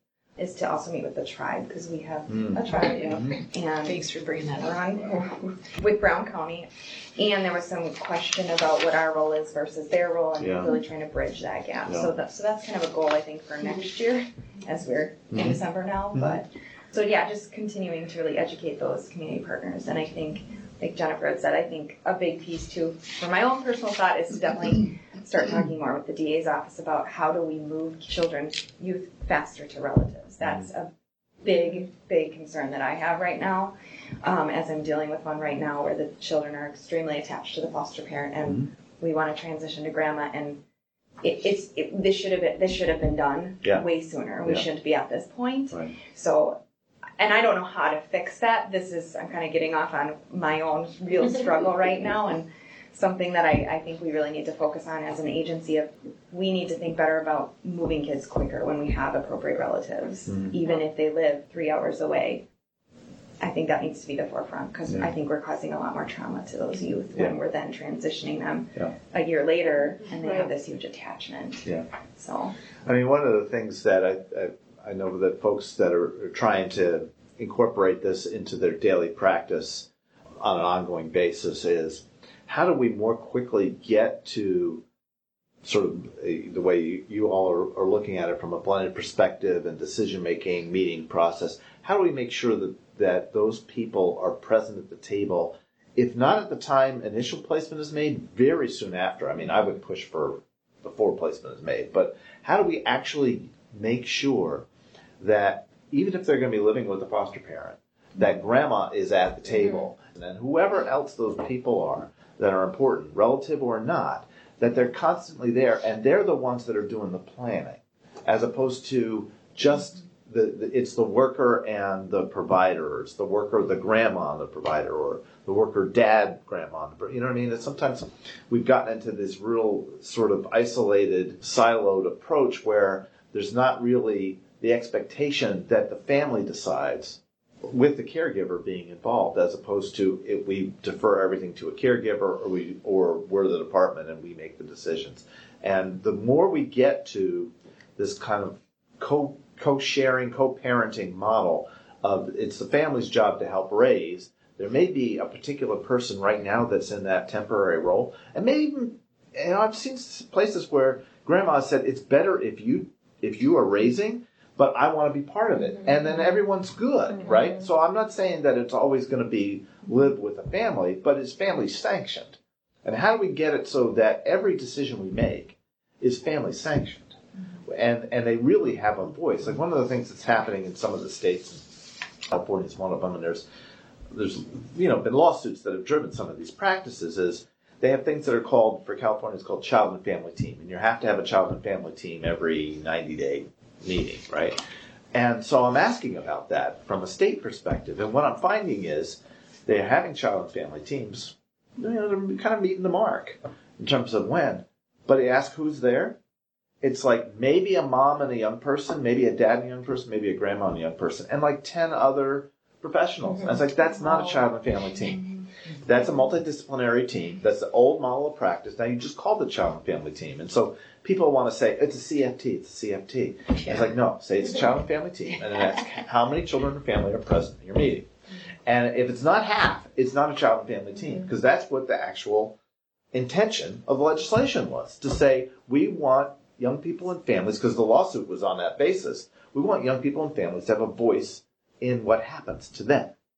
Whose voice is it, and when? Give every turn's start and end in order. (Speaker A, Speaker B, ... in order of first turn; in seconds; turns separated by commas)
Speaker A: 0.4-4.0, Speaker B: 2.3-3.4, Speaker C: 2.7-3.3, Speaker C: 3.8-5.0, Speaker A: 4.6-30.9, Speaker B: 10.4-10.8, Speaker B: 11.9-12.1, Speaker B: 15.3-15.6, Speaker B: 16.1-16.4, Speaker A: 31.4-40.6, Speaker A: 41.2-46.6, Speaker A: 47.2-62.5, Speaker B: 60.3-60.6, Speaker A: 63.4-72.5, Speaker B: 72.9-79.9, Speaker B: 80.4-84.8, Speaker B: 85.6-104.7, Speaker B: 105.2-181.7, Speaker B: 182.3-183.4, Speaker B: 184.1-194.6, Speaker B: 195.1-206.2, Speaker B: 206.8-215.2, Speaker B: 215.8-228.1, Speaker C: 223.6-223.9, Speaker C: 225.3-225.8, Speaker B: 228.7-232.6, Speaker B: 233.1-243.2